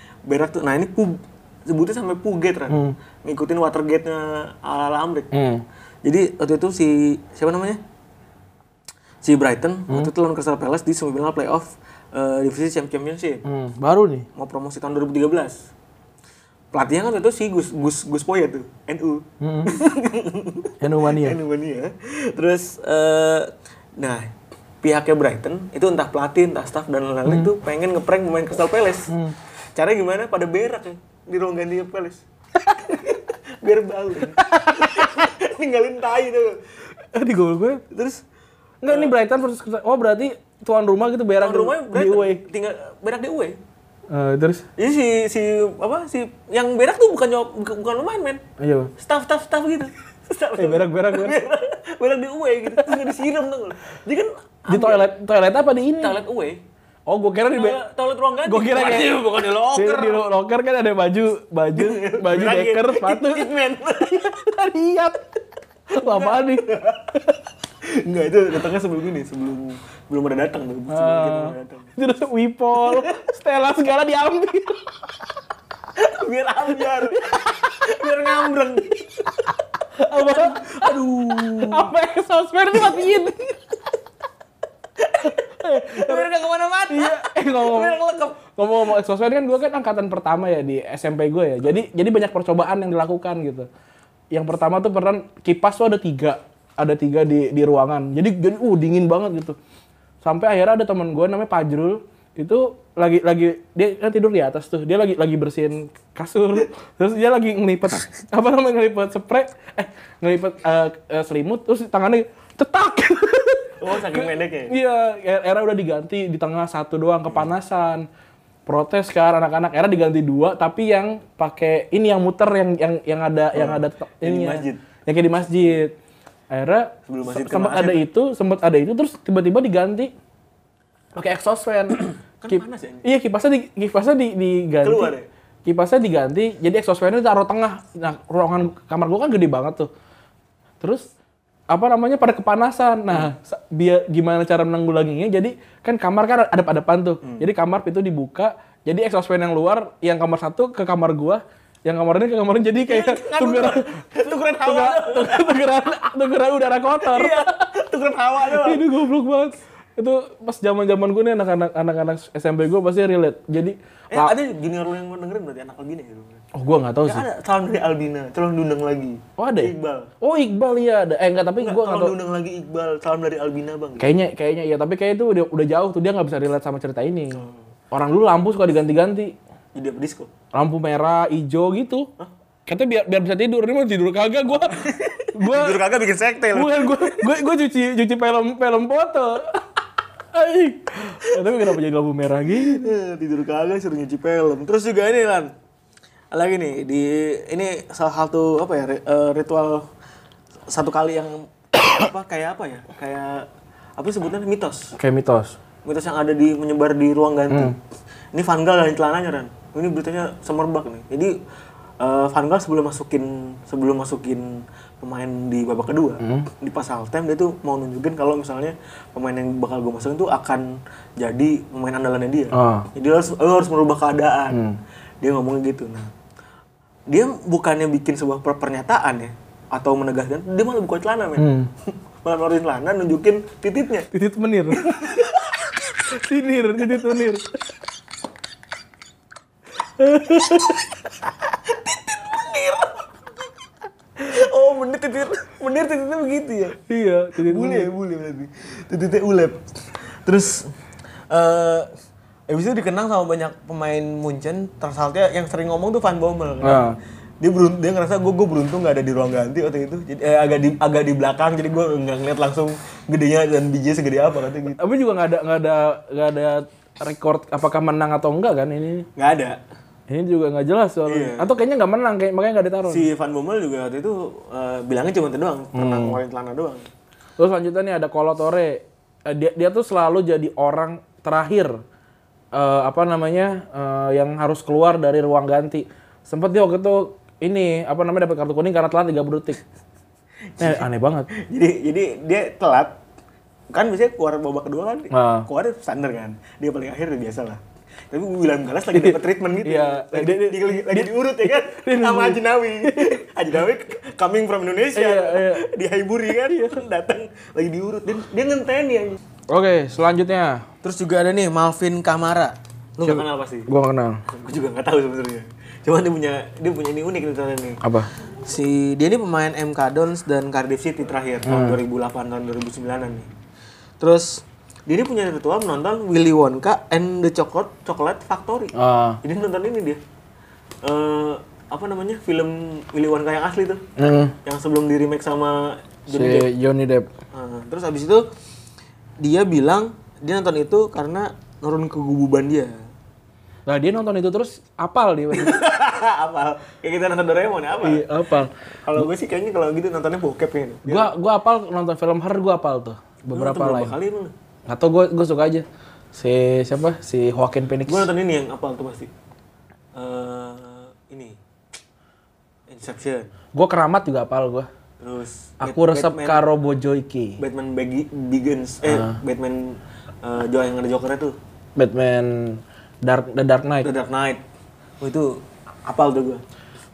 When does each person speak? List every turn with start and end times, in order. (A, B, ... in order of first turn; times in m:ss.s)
0:00.3-0:05.3 A
0:02.7-0:03.0 B
0:05.3-0:05.6 B
0:06.0-0:07.8 A
0:09.2-0:13.4 A
0:13.4-0:14.3 B
0:14.4-0:15.6 A
0:16.7-0:24.3 A
0:19.4-0:19.8 B
0:20.8-0:21.4 B
0:24.8-0:29.1 A
0:27.3-0:27.5 B
0:29.1-0:29.4 B
0:29.8-0:32.2 A
0:32.8-0:36.6 A
0:34.3-0:35.3 B
0:37.1-0:37.8 B
0:37.9-0:38.2 A
0:38.8-0:42.4 B
0:38.9-0:39.1 A
0:41.4-0:43.6 A
0:44.1-0:44.6 B
0:44.8-0:48.4 A
0:48.6-0:48.9 B
0:49.0-0:55.1 A
0:50.6-0:51.4 B
0:52.8-0:53.0 B
0:54.7-0:56.2 B
0:56.0-0:56.6 A
0:57.1-0:57.8 B
0:57.5-1:00.2 A
0:58.4-1:03.5 B
1:01.8-1:04.3 A
1:04.0-1:05.2 B
1:05.9-1:07.4 B
1:06.0-1:07.1 A
1:07.8-1:11.9 A
1:10.9-1:14.8 B
1:12.8-1:13.2 A
1:16.0-1:19.4 A
1:17.2-1:17.7 B
1:20.0-1:20.8 B
1:20.1-1:21.9 A
1:21.3-1:23.6 B
1:25.0-1:28.4 A
1:25.3-1:26.3 B
1:26.9-1:33.7 B
1:34.3-1:39.6 B
1:40.2-1:58.1 B
1:53.8-1:54.8 A
1:58.7-2:06.0 B
2:03.5-2:04.8 A
2:06.5-2:10.1 B
2:07.1-2:08.0 A
2:11.2-2:15.1 B
2:12.4-2:13.1 A
2:14.8-2:15.3 A
2:15.7-2:19.9 B
2:20.8-2:21.1 B
2:21.7-2:34.0 B
2:27.2-2:27.5 A
2:32.8-2:35.6 A
2:34.6-2:37.6 B
2:37.0-2:38.9 A
2:38.5-2:44.3 B
2:44.1-2:46.4 A
2:46.6-2:47.3 B
2:47.0-2:50.1 A
2:49.4-2:52.2 B
2:51.6-2:54.1 A
2:54.0-2:59.3 B
2:59.8-3:00.3 A
3:00.5-3:02.1 B
3:02.7-3:05.8 B
3:04.6-3:07.4 A
3:06.5-3:09.6 B
3:10.3-3:13.0 B
3:11.3-3:11.8 A
3:12.5-3:15.5 A
3:16.3-3:19.9 A
3:20.7-3:24.9 A
3:25.0-3:25.6 B
3:25.8-3:27.8 A
3:27.5-3:27.8 B
3:28.3-3:31.3 A
3:32.0-3:44.6 A
3:36.2-3:36.5 B
3:42.5-3:42.9 B
3:44.5-3:44.8 B
3:45.2-3:46.1 A
3:47.1-3:54.1 A
3:51.4-3:51.7 B
3:54.1-3:55.2 B
3:54.7-3:55.8 A
3:56.1-3:57.5 B
3:56.8-3:57.2 A
4:00.0-4:00.8 B
4:00.3-4:00.8 A
4:01.6-4:03.3 A
4:04.2-4:06.8 A
4:06.9-4:07.9 B
4:07.4-4:10.7 A
4:11.3-4:11.9 A
4:12.5-4:16.9 A
4:16.6-4:17.0 B
4:17.4-4:24.8 A
4:24.8-4:29.1 B
4:29.2-4:29.6 A
4:30.1-4:33.1 B
4:31.1-4:31.5 A
4:32.9-4:36.9 A
4:35.8-4:36.2 B
4:37.4-4:41.8 B
4:42.6-4:49.6 B
4:50.6-4:53.0 A
4:50.6-4:51.3 B
4:53.7-5:09.2 A
4:55.1-4:55.5 B
4:58.9-5:03.2 B
5:05.0-5:05.7 B
5:06.3-5:06.8 B
5:09.5-5:10.7 B
5:10.8-5:13.7 A
5:13.0-5:14.2 B
5:14.3-5:17.8 A
5:17.8-5:18.1 B
5:18.4-5:23.3 A
5:21.5-5:21.8 B
5:24.0-5:30.0 A
5:28.7-5:29.2 B
5:30.8-5:33.8 A
5:34.0-5:34.4 B
5:34.4-5:36.5 A
5:36.1-5:37.1 B
5:37.3-5:38.2 A
5:39.2-5:42.7 A
5:43.7-5:45.6 B
5:45.3-5:48.1 A
5:47.8-5:49.1 B
5:48.8-5:51.1 A
5:50.9-5:54.0 B
5:53.3-5:54.3 A
5:54.7-5:58.1 B
5:57.9-5:59.1 A
6:00.0-6:01.4 A
6:02.7-6:03.3 A
6:03.5-6:04.7 B
6:05.0-6:06.4 A
6:05.6-6:07.4 B
6:07.4-6:11.4 A
6:08.8-6:09.2 B
6:11.8-6:13.9 B
6:13.8-6:14.4 A
6:15.0-6:16.4 A